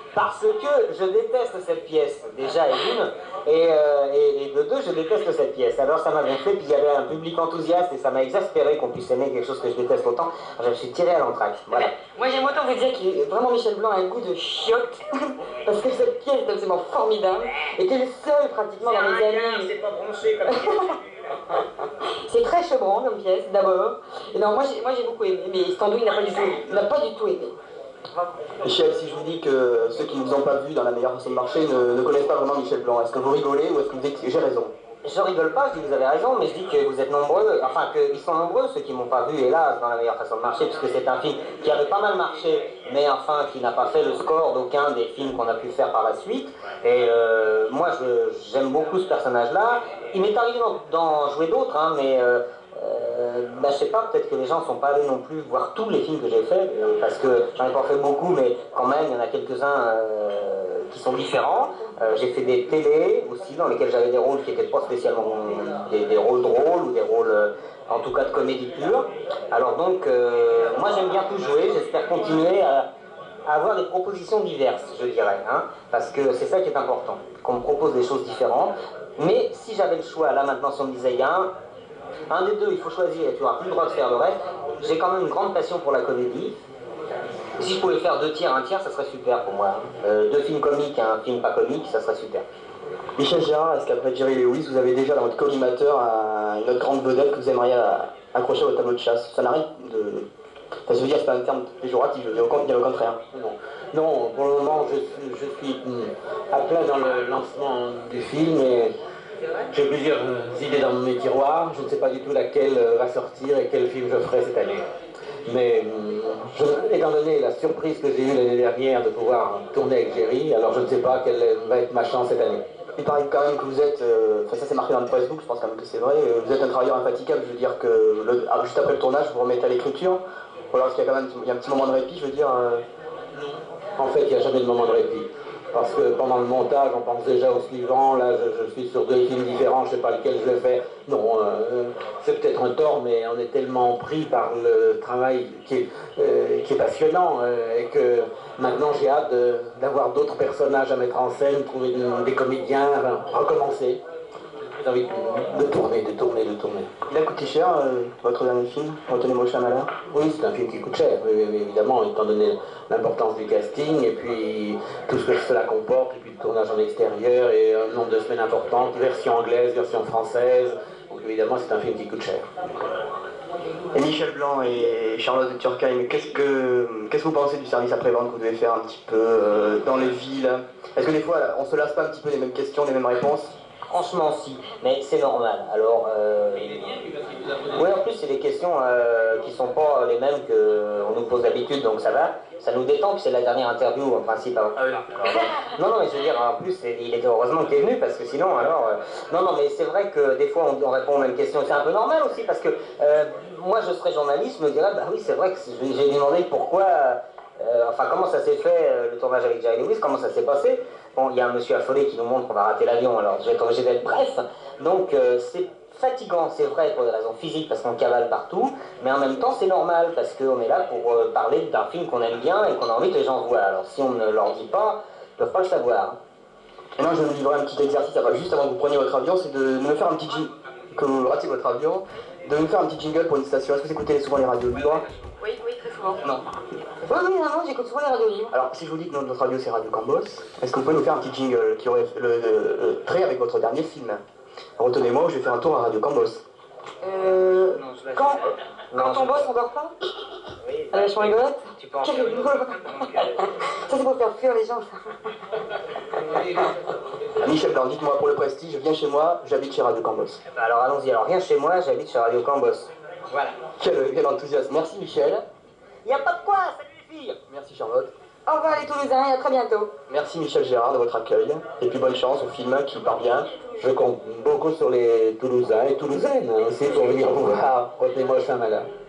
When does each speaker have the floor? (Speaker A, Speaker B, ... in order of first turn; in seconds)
Speaker A: 0.1-11.9, 18.8-20.9, 35.0-72.9, 73.5-81.5, 82.3-86.5, 87.6-92.4, 183.9-186.9, 187.7-226.2, 247.2-249.5, 250.6-253.4, 260.5-263.5, 266.0-267.4
Speaker B: 11.7-19.7, 20.5-20.8, 22.3-27.5, 235.4-236.2, 237.1-238.5, 247.0-248.4, 248.9-249.9, 250.9-255.0, 268.5-269.9
Speaker C: 28.6-34.7, 93.2-100.2, 100.9-103.2, 123.0-130.2, 130.7-132.8, 157.1-159.9, 173.9-183.5, 227.0-235.0, 238.5-244.2, 244.8-246.4, 257.4-260.4, 263.8-265.4, 267.5-268.1, 270.1-273.5, 276.9-277.9
Speaker D: 103.3-108.9, 109.7-114.8, 115.5-122.6, 133.3-154.0, 154.6-156.9, 160.1-172.4, 273.8-278.9